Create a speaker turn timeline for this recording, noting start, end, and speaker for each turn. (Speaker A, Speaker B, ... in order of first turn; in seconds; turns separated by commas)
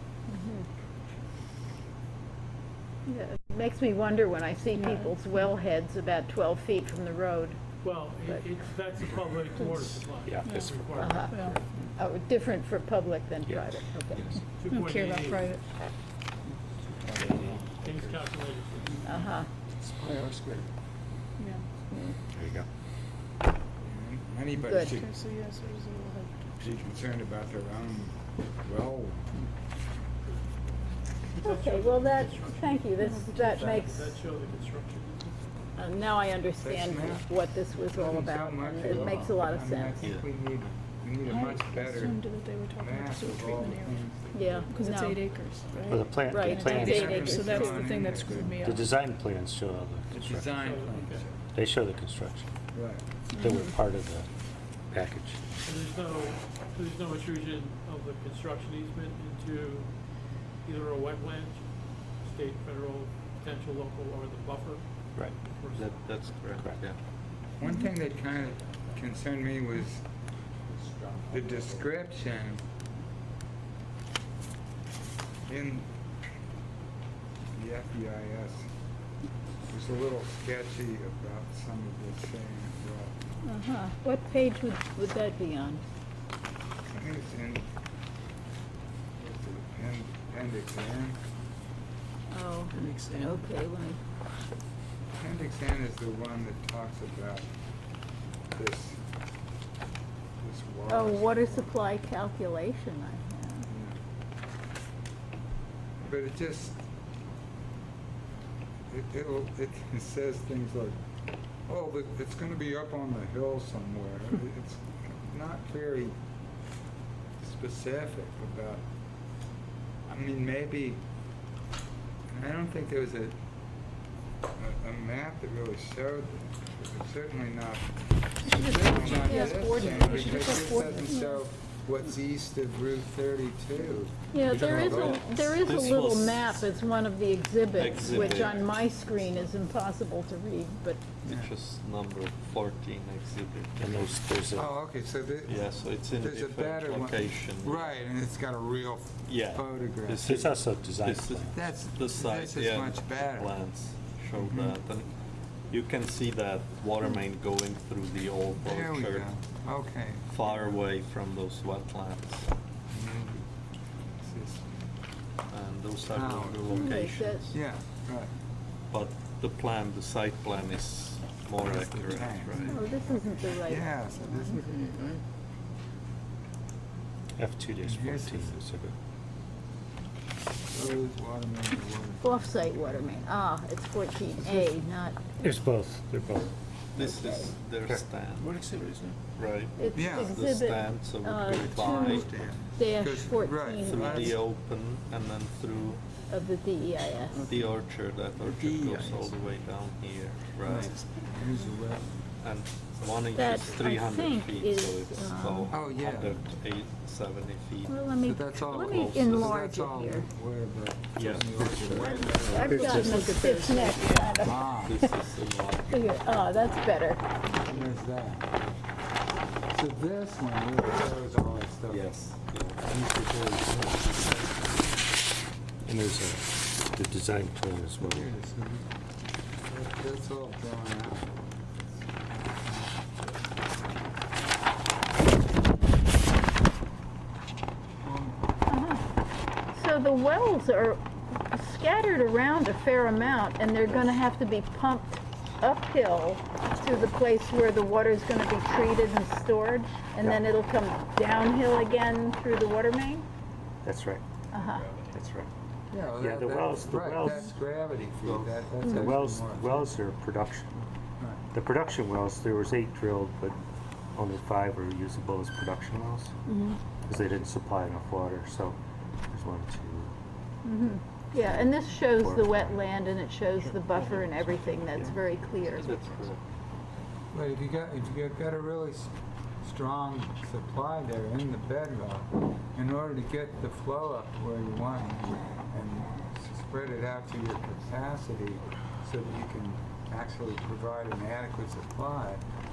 Speaker A: 0.3-0.7, Speaker A: 3.1-8.5, Speaker B: 4.8-5.5, Speaker C: 7.8-11.6, Speaker B: 9.6-9.8, Speaker D: 10.2-11.2, Speaker B: 10.4-11.6, Speaker A: 11.0-14.4, Speaker D: 13.5-14.4, Speaker C: 14.6-15.6, Speaker B: 14.7-15.6, Speaker E: 16.5-18.3, Speaker D: 17.2-17.4, Speaker C: 17.8-19.3, Speaker A: 19.1-19.5, Speaker E: 20.0-20.6, Speaker B: 21.4-21.6, Speaker D: 22.3-22.7, Speaker E: 23.8-25.1, Speaker A: 24.6-25.0, Speaker B: 24.6-26.7, Speaker E: 26.6-29.4, Speaker C: 31.3-35.5, Speaker A: 31.4-34.2, Speaker B: 33.0-33.7, Speaker E: 33.4-33.9, Speaker A: 35.8-40.1, Speaker E: 36.6-37.3, Speaker E: 37.8-42.2, Speaker C: 39.0-39.3, Speaker F: 40.0-40.7, Speaker B: 41.2-49.0, Speaker E: 42.8-44.3, Speaker A: 44.3-45.2, Speaker C: 44.4-44.9, Speaker C: 45.5-45.9, Speaker D: 45.9-47.4, Speaker A: 46.2-48.0, Speaker E: 46.6-48.7, Speaker D: 48.6-50.6, Speaker E: 50.1-51.3, Speaker C: 50.6-51.3, Speaker D: 51.5-52.5, Speaker E: 52.7-53.0, Speaker A: 53.4-53.8, Speaker D: 53.4-54.3, Speaker D: 54.9-55.4, Speaker C: 55.6-66.2, Speaker F: 65.7-67.0, Speaker E: 67.6-70.0, Speaker E: 71.3-72.6, Speaker E: 75.5-75.9, Speaker E: 77.5-78.7, Speaker E: 79.7-83.1, Speaker A: 83.4-85.8, Speaker E: 86.9-87.6, Speaker E: 89.2-91.2, Speaker A: 92.3-94.0, Speaker G: 92.7-93.4, Speaker E: 95.2-97.5, Speaker E: 98.5-99.0, Speaker E: 100.4-101.7, Speaker A: 100.9-103.7, Speaker E: 103.7-104.0, Speaker E: 106.0-106.8, Speaker E: 108.9-111.0, Speaker E: 111.7-116.2, Speaker E: 117.4-118.8, Speaker E: 120.1-121.0, Speaker E: 122.3-123.4, Speaker E: 124.6-135.4, Speaker B: 128.4-131.3, Speaker A: 129.0-131.4, Speaker A: 134.3-141.0, Speaker F: 134.5-136.7, Speaker F: 137.7-138.7, Speaker E: 138.0-138.6, Speaker E: 141.2-141.5, Speaker F: 141.2-144.2, Speaker D: 143.8-144.7, Speaker E: 144.6-150.3, Speaker F: 145.5-148.0, Speaker F: 149.3-155.1, Speaker D: 150.2-151.6, Speaker E: 151.5-153.6, Speaker E: 154.3-154.8, Speaker F: 155.7-159.3, Speaker E: 158.6-160.8, Speaker F: 160.3-162.5, Speaker E: 162.9-164.7, Speaker F: 165.5-167.6, Speaker E: 166.1-168.3, Speaker A: 166.7-167.4, Speaker F: 168.9-172.9, Speaker E: 171.6-175.2, Speaker A: 172.7-174.6, Speaker D: 177.4-178.9, Speaker E: 177.8-178.6, Speaker E: 180.7-183.1, Speaker A: 182.2-185.2, Speaker D: 185.4-186.5, Speaker A: 186.9-187.5, Speaker F: 187.0-188.6, Speaker G: 188.4-189.2, Speaker F: 189.4-192.6, Speaker A: 189.8-194.4, Speaker E: 189.9-190.3, Speaker E: 191.7-194.4, Speaker F: 193.8-196.0, Speaker A: 196.3-197.4, Speaker G: 197.3-197.7, Speaker F: 197.4-201.0, Speaker G: 198.4-199.4, Speaker E: 200.7-202.2, Speaker G: 200.7-201.3, Speaker F: 202.4-208.0, Speaker A: 203.3-205.8, Speaker E: 205.7-206.4, Speaker A: 207.9-210.3, Speaker E: 208.2-213.3, Speaker F: 208.8-209.6, Speaker F: 211.2-216.2, Speaker D: 211.6-212.3, Speaker A: 212.3-215.1, Speaker G: 212.6-213.0, Speaker B: 212.8-213.9, Speaker E: 214.2-215.0, Speaker A: 215.9-217.2, Speaker E: 217.7-218.6, Speaker E: 219.7-222.1, Speaker F: 221.9-222.8, Speaker E: 222.8-224.6, Speaker D: 225.8-228.3, Speaker E: 228.0-228.9, Speaker E: 229.7-231.3, Speaker E: 232.5-233.1, Speaker E: 238.0-238.4, Speaker A: 238.7-239.1, Speaker A: 239.7-253.3, Speaker D: 253.8-254.2, Speaker A: 254.5-254.8, Speaker F: 254.6-255.1, Speaker D: 255.1-255.5, Speaker E: 255.9-259.9, Speaker D: 256.1-257.5, Speaker F: 258.2-258.7, Speaker D: 258.8-260.8, Speaker D: 261.5-263.6, Speaker D: 264.1-266.4, Speaker A: 266.5-266.8, Speaker D: 267.1-268.8, Speaker D: 269.3-270.1, Speaker A: 270.6-276.1, Speaker D: 271.3-272.8, Speaker F: 273.7-275.1, Speaker F: 275.7-276.4, Speaker E: 277.3-279.1, Speaker E: 279.6-292.4